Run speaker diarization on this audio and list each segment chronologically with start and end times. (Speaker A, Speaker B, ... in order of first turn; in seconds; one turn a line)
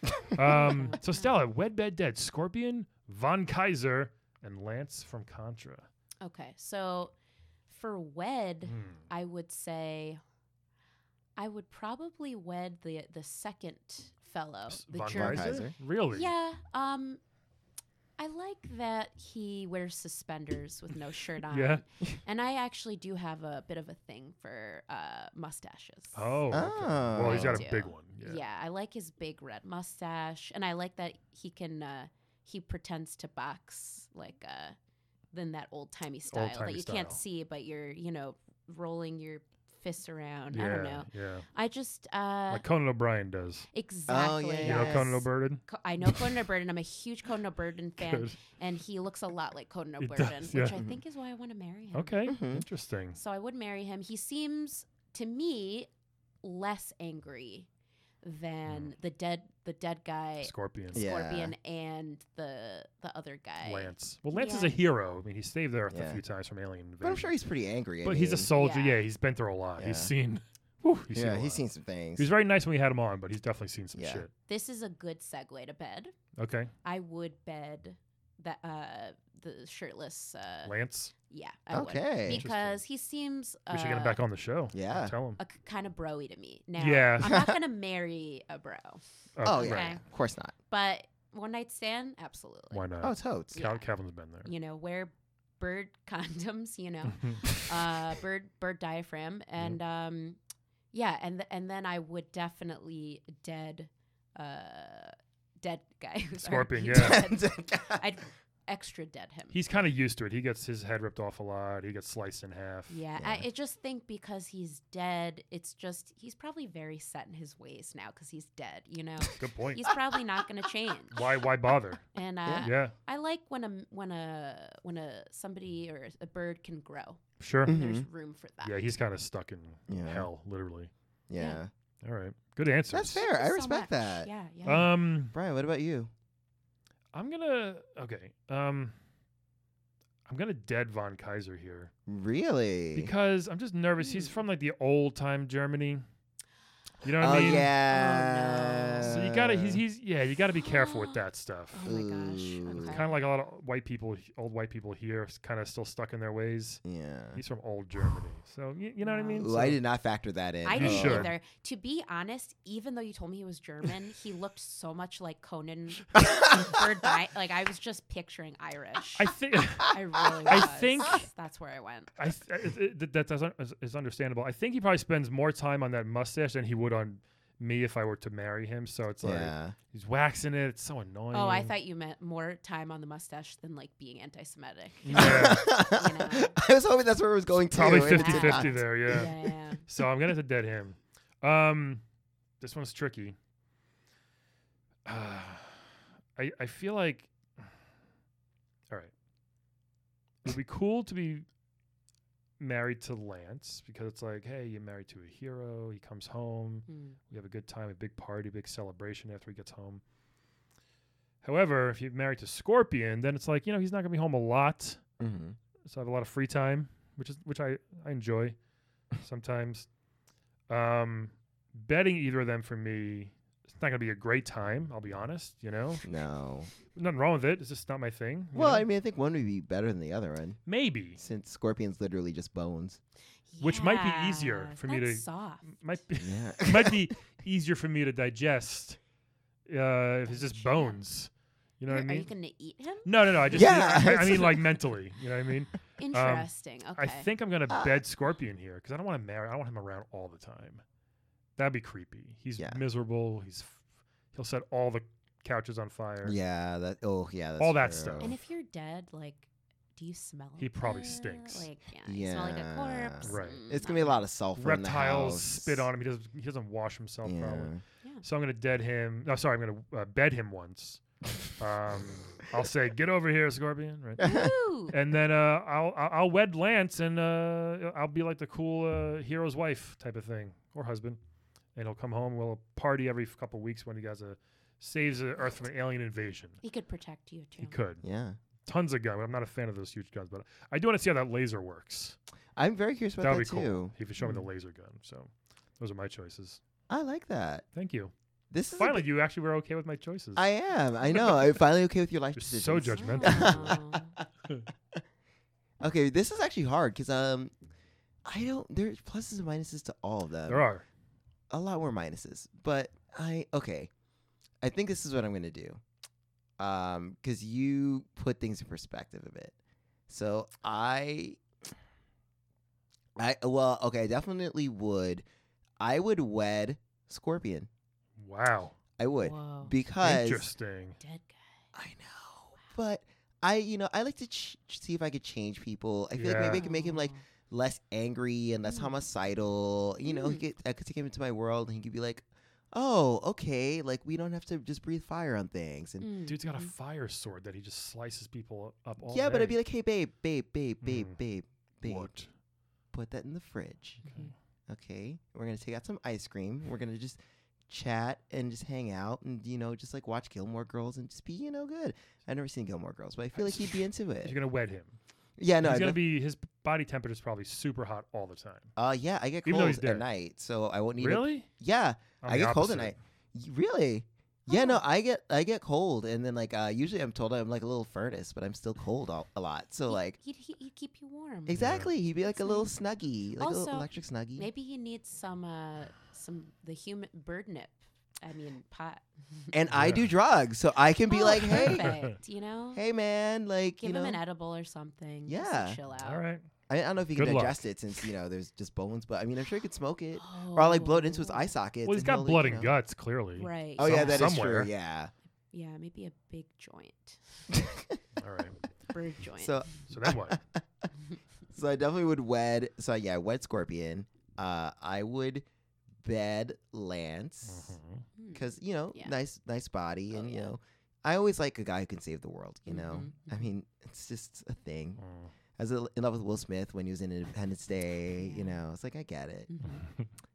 Speaker A: 0.2-5.9
Speaker B: 0.6-1.3
Speaker B: 6.2-7.1
Speaker B: 7.7-10.2
Speaker A: 8.7-9.0
Speaker B: 11.4-17.2
Speaker A: 14.7-16.3
Speaker C: 15.1-15.7
Speaker B: 18.2-26.4
Speaker A: 21.5-21.8
Speaker A: 26.1-28.4
Speaker C: 26.5-27.7
Speaker B: 27.1-34.8
Speaker B: 35.3-42.6
Speaker A: 36.3-37.2
Speaker A: 40.5-41.5
Speaker A: 42.5-43.7
Speaker B: 43.7-52.2
Speaker C: 44.1-45.1
Speaker A: 44.6-46.3
Speaker A: 48.0-48.4
Speaker A: 50.0-50.8
Speaker C: 50.7-51.0
Speaker A: 51.9-53.2
Speaker C: 52.2-52.6
Speaker B: 53.1-55.9
Speaker B: 56.4-57.7
Speaker B: 58.2-64.8
Speaker A: 58.7-58.9
Speaker A: 60.4-61.0
Speaker C: 60.9-61.5
Speaker A: 63.6-67.3
Speaker C: 65.9-66.2
Speaker C: 67.0-68.5
Speaker A: 68.0-71.6
Speaker B: 68.5-69.0
Speaker C: 69.8-70.1
Speaker C: 71.1-72.3
Speaker A: 72.2-74.3
Speaker C: 73.9-74.2
Speaker B: 74.5-76.1
Speaker A: 76.3-76.7
Speaker B: 76.8-80.7
Speaker A: 80.7-81.1
Speaker B: 81.3-84.2
Speaker C: 81.7-82.4
Speaker A: 82.2-82.8
Speaker A: 83.7-85.4
Speaker C: 84.7-85.1
Speaker B: 85.4-89.0
Speaker A: 86.8-87.4
Speaker A: 89.3-89.9
Speaker C: 89.4-90.5
Speaker B: 89.5-90.0
Speaker B: 90.7-92.8
Speaker A: 92.7-94.5
Speaker C: 93.0-93.6
Speaker B: 93.5-93.8
Speaker B: 94.4-100.4
Speaker B: 100.9-109.5
Speaker A: 106.4-107.2
Speaker C: 106.9-108.1
Speaker A: 109.5-113.0
Speaker B: 112.9-121.2
Speaker C: 113.2-113.5
Speaker A: 119.4-120.0
Speaker A: 121.1-122.0
Speaker B: 122.1-128.7
Speaker A: 122.6-122.9
Speaker A: 127.4-127.7
Speaker C: 127.7-128.1
Speaker A: 128.6-130.9
Speaker C: 129.9-130.3
Speaker C: 131.3-131.7
Speaker B: 131.3-131.6
Speaker A: 132.0-133.2
Speaker C: 132.9-134.3
Speaker B: 133.2-134.9
Speaker A: 134.6-135.3
Speaker C: 135.3-136.1
Speaker A: 137.1-138.9
Speaker A: 140.2-141.9
Speaker C: 142.1-143.1
Speaker A: 142.9-146.0
Speaker B: 144.0-144.4
Speaker A: 147.0-147.7
Speaker C: 147.2-149.8
Speaker B: 147.8-149.2
Speaker A: 149.1-151.8
Speaker B: 150.6-153.2
Speaker C: 151.8-153.0
Speaker A: 152.8-156.8
Speaker C: 156.8-157.4
Speaker A: 157.3-159.8
Speaker B: 159.0-159.5
Speaker C: 159.4-161.3
Speaker B: 160.6-169.3
Speaker A: 160.7-161.3
Speaker C: 166.1-166.8
Speaker A: 169.2-171.3
Speaker B: 169.9-172.1
Speaker A: 172.2-181.7
Speaker C: 179.2-179.7
Speaker B: 181.3-186.5
Speaker A: 185.0-185.7
Speaker C: 185.1-189.3
Speaker A: 187.7-192.0
Speaker B: 188.1-189.8
Speaker A: 192.6-193.3
Speaker A: 195.1-197.7
Speaker A: 200.4-201.4
Speaker A: 202.6-210.0
Speaker B: 206.9-207.2
Speaker A: 211.4-215.0
Speaker C: 215.2-215.6
Speaker A: 215.8-218.6
Speaker A: 219.2-219.9
Speaker A: 220.7-226.0
Speaker C: 226.0-226.7
Speaker A: 226.9-228.8
Speaker C: 228.5-230.6
Speaker A: 230.7-231.2
Speaker C: 231.2-233.0
Speaker B: 233.5-235.7
Speaker A: 233.6-239.0
Speaker C: 236.2-237.1
Speaker A: 239.7-242.3
Speaker B: 240.3-241.0
Speaker B: 241.9-243.8
Speaker A: 243.0-250.8
Speaker C: 243.5-244.7
Speaker B: 246.0-247.3
Speaker C: 247.7-248.0
Speaker A: 251.6-253.8
Speaker A: 254.3-256.4
Speaker C: 256.2-258.4
Speaker A: 257.6-258.3
Speaker B: 258.2-264.2
Speaker A: 260.6-261.7
Speaker C: 262.1-265.9
Speaker A: 263.2-263.6
Speaker A: 264.6-267.7
Speaker C: 267.2-267.8
Speaker A: 268.2-271.0
Speaker A: 271.6-274.3
Speaker C: 274.2-274.5
Speaker B: 274.2-274.9
Speaker A: 274.9-281.2
Speaker A: 281.7-286.6
Speaker B: 286.6-287.8
Speaker A: 287.6-288.0
Speaker C: 288.0-288.4
Speaker A: 288.6-292.1
Speaker C: 292.6-294.4
Speaker A: 293.2-296.6
Speaker C: 296.9-297.6
Speaker A: 297.7-298.1
Speaker C: 298.5-299.1
Speaker A: 298.7-300.5
Speaker C: 300.4-304.2
Speaker A: 301.1-301.4
Speaker A: 302.3-303.8
Speaker B: 302.9-304.1
Speaker C: 305.8-307.5
Speaker C: 308.2-310.6
Speaker A: 310.5-310.8
Speaker C: 311.5-313.9
Speaker C: 314.6-315.8
Speaker C: 316.6-319.5
Speaker C: 320.1-321.4
Speaker C: 323.1-325.2
Speaker C: 325.8-327.7
Speaker A: 328.2-328.7
Speaker C: 329.0-330.5
Speaker B: 329.2-329.7
Speaker A: 330.0-331.0
Speaker B: 331.0-331.4
Speaker C: 331.7-346.1
Speaker A: 336.2-336.6
Speaker B: 336.5-337.2
Speaker B: 338.6-338.9
Speaker B: 340.0-340.4
Speaker B: 346.0-346.7
Speaker A: 346.2-349.6
Speaker C: 349.0-352.1
Speaker A: 350.8-351.2
Speaker A: 351.8-352.3
Speaker C: 352.9-354.0
Speaker B: 354.0-354.3
Speaker C: 354.7-364.3
Speaker A: 364.2-364.9
Speaker C: 365.4-366.0
Speaker A: 365.6-368.7
Speaker C: 368.8-380.2
Speaker A: 369.4-370.0
Speaker A: 371.0-371.5
Speaker A: 372.2-372.9
Speaker B: 374.5-374.8
Speaker B: 379.9-381.8
Speaker C: 381.5-384.5
Speaker A: 381.6-381.9
Speaker B: 382.3-382.7
Speaker B: 383.4-389.5
Speaker C: 389.5-391.9
Speaker A: 389.7-390.1
Speaker B: 391.1-392.8
Speaker A: 391.5-392.1
Speaker C: 392.7-394.2
Speaker B: 393.8-396.2
Speaker C: 395.2-395.8
Speaker A: 395.9-396.4
Speaker C: 396.7-402.7
Speaker A: 397.1-397.6
Speaker B: 400.2-401.5
Speaker A: 401.8-404.7
Speaker B: 403.4-404.3
Speaker C: 403.8-405.1
Speaker B: 405.5-407.2
Speaker C: 407.5-408.0
Speaker A: 408.2-408.6
Speaker B: 408.9-409.7
Speaker C: 409.4-410.6
Speaker A: 409.9-410.4
Speaker C: 411.5-415.4
Speaker C: 416.0-417.7
Speaker A: 417.5-418.1
Speaker B: 418.1-419.1
Speaker C: 418.3-425.0
Speaker B: 420.1-420.5
Speaker B: 422.6-423.4
Speaker A: 425.0-425.3
Speaker C: 425.6-429.5
Speaker B: 428.1-428.6
Speaker B: 429.5-429.9